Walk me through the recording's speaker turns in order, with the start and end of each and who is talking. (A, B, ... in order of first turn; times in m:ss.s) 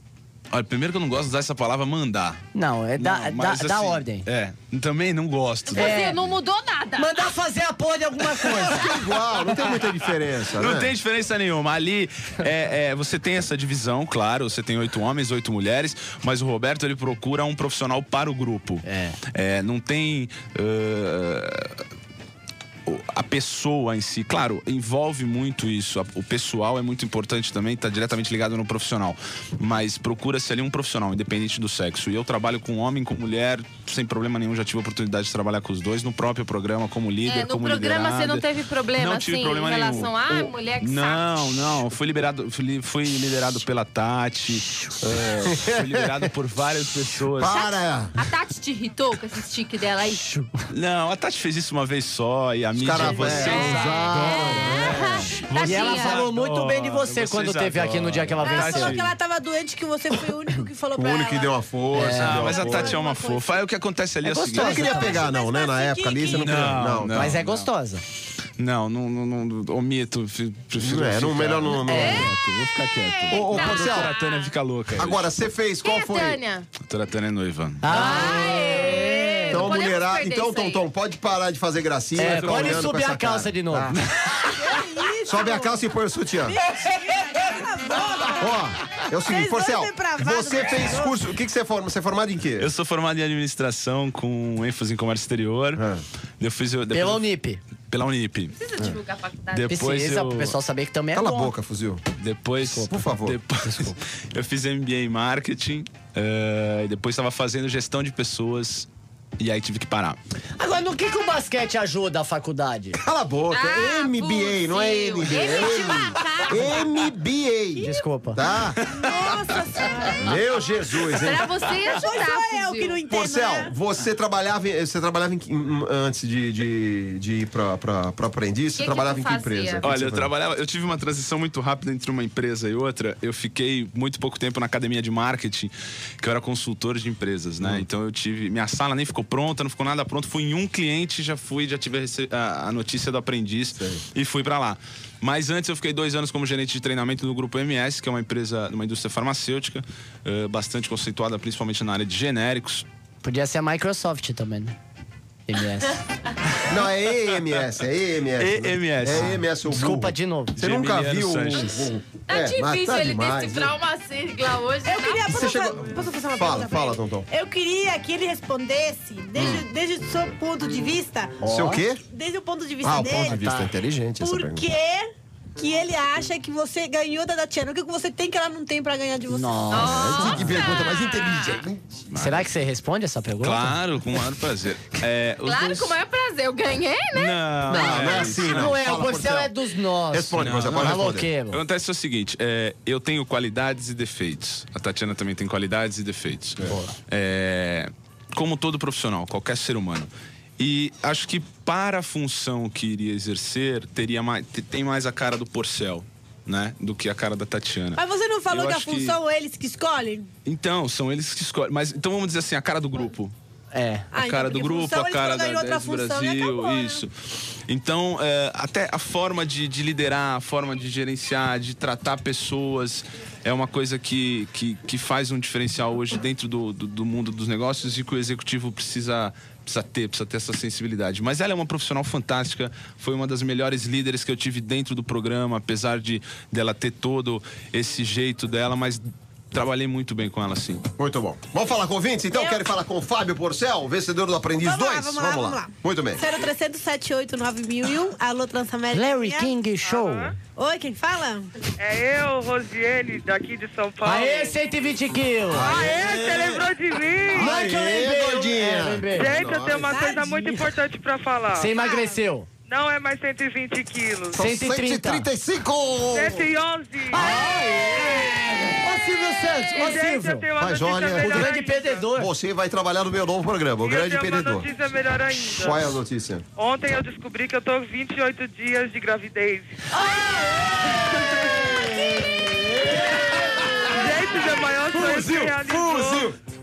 0:00.5-0:02.4 A
0:02.5-0:04.2 B
0:03.0-0:06.3 A
0:05.7-0:07.2 C
0:05.8-0:06.2 B
0:07.0-0:08.9 B
0:08.5-0:10.9 D
0:10.6-0:21.8 A
0:18.8-0:19.2 B
0:22.9-0:47.6 A
0:37.2-0:41.2 C
0:45.5-0:46.1 D
0:47.4-0:48.1 D
0:47.5-0:50.2 C
0:50.1-0:50.6 B
0:50.7-0:59.1 A
0:52.8-0:55.0 D
0:53.4-0:56.2 C
0:53.5-0:55.1 B
0:55.6-0:59.0 B
0:58.4-1:01.5 E
1:01.0-1:03.0 D
1:02.0-1:02.5 B
1:02.0-1:05.0 A
1:02.4-1:03.5 E
1:04.2-1:05.2 B
1:04.5-1:07.4 D
1:05.0-1:06.7 E
1:06.4-1:07.7 A
1:07.1-1:08.0 B
1:08.6-1:15.3 A
1:10.8-1:12.3 D
1:11.9-1:12.3 C
1:11.9-1:12.3 B
1:13.1-1:14.5 C
1:13.3-1:14.1 D
1:15.0-1:16.4 D
1:15.8-1:16.7 C
1:16.8-1:18.2 A
1:17.8-1:19.7 B
1:17.9-1:20.8 C
1:18.1-1:18.4 D
1:19.5-1:24.0 D
1:22.2-1:23.9 B
1:22.2-1:22.9 A
1:24.6-1:25.8 E
1:25.3-1:26.6 D
1:26.4-1:28.6 E
1:28.4-1:32.7 D
1:29.3-1:31.1 E
1:32.6-1:35.8 A
1:35.8-1:36.0 D
1:36.4-1:37.2 A
1:36.9-1:37.6 B
1:37.9-1:38.5 A
1:38.6-1:39.8 C
1:39.5-1:40.6 A
1:39.7-1:41.5 B
1:41.1-1:42.0 D
1:42.2-1:48.9 A
1:42.6-1:42.9 B
1:42.9-1:43.4 D
1:49.4-1:50.2 A
1:50.6-1:53.0 B
1:53.0-1:58.8 D
1:53.5-1:56.9 C
1:55.4-1:55.8 E
1:57.8-1:58.4 B
1:58.8-2:00.4 E
2:00.2-2:01.5 D
2:01.2-2:03.0 C
2:01.8-2:03.7 E
2:03.1-2:10.3 D
2:08.8-2:09.9 C
2:09.8-2:32.8 A
2:17.6-2:17.9 D
2:23.8-2:24.0 D
2:33.2-2:34.8 B
2:35.5-2:36.0 B
2:36.7-2:43.7 D
2:38.4-2:39.4 A
2:39.1-2:40.6 B
2:40.6-2:41.9 A
2:42.3-2:45.4 C
2:44.8-2:51.4 E
2:45.3-2:47.3 D
2:51.4-2:51.8 B
2:51.4-2:52.0 D
2:52.0-2:53.4 E
2:52.8-2:54.6 D
2:53.2-2:53.7 B
2:54.2-2:59.8 E
2:59.3-3:00.7 B
2:59.7-3:01.6 C
3:00.1-3:01.8 D
3:02.1-3:02.5 A
3:02.2-3:03.8 B
3:03.4-3:06.0 A
3:05.4-3:07.4 C
3:07.1-3:09.0 A
3:07.7-3:09.5 D
3:08.5-3:11.6 B
3:10.1-3:11.3 D
3:10.4-3:29.2 A
3:28.0-3:30.3 E
3:30.4-3:33.3 A
3:33.7-3:34.1 B
3:34.1-3:37.0 E
3:34.2-3:37.1 A
3:37.7-4:00.8 A
4:01.0-4:06.2 D
4:02.3-4:02.6 E
4:04.6-4:09.5 E
4:08.9-4:10.3 B
4:09.8-4:10.4 F
4:10.6-4:11.5 E
4:11.8-4:14.6 F
4:14.0-4:15.7 B
4:15.5-4:16.7 D
4:15.6-4:17.6 F
4:17.3-4:20.0 D
4:17.3-4:19.3 B
4:19.1-4:21.9 F
4:19.9-4:20.7 E
4:21.6-4:22.5 B
4:21.8-4:22.2 E
4:22.7-4:24.4 F
4:24.4-4:25.3 B
4:24.4-4:26.4 D
4:26.1-4:27.6 F
4:27.1-4:28.1 B
4:27.1-4:28.7 D
4:28.8-4:30.5 B
4:29.5-4:32.1 F
4:30.6-4:31.5 D
4:31.2-4:32.3 B
4:32.2-4:34.7 D
4:33.8-4:35.8 F
4:35.5-4:36.4 D
4:36.6-4:39.9 F
4:40.0-4:40.5 B
4:41.4-4:43.9 D
4:42.9-4:43.2 B
4:43.9-4:46.3 F
4:44.9-4:46.4 D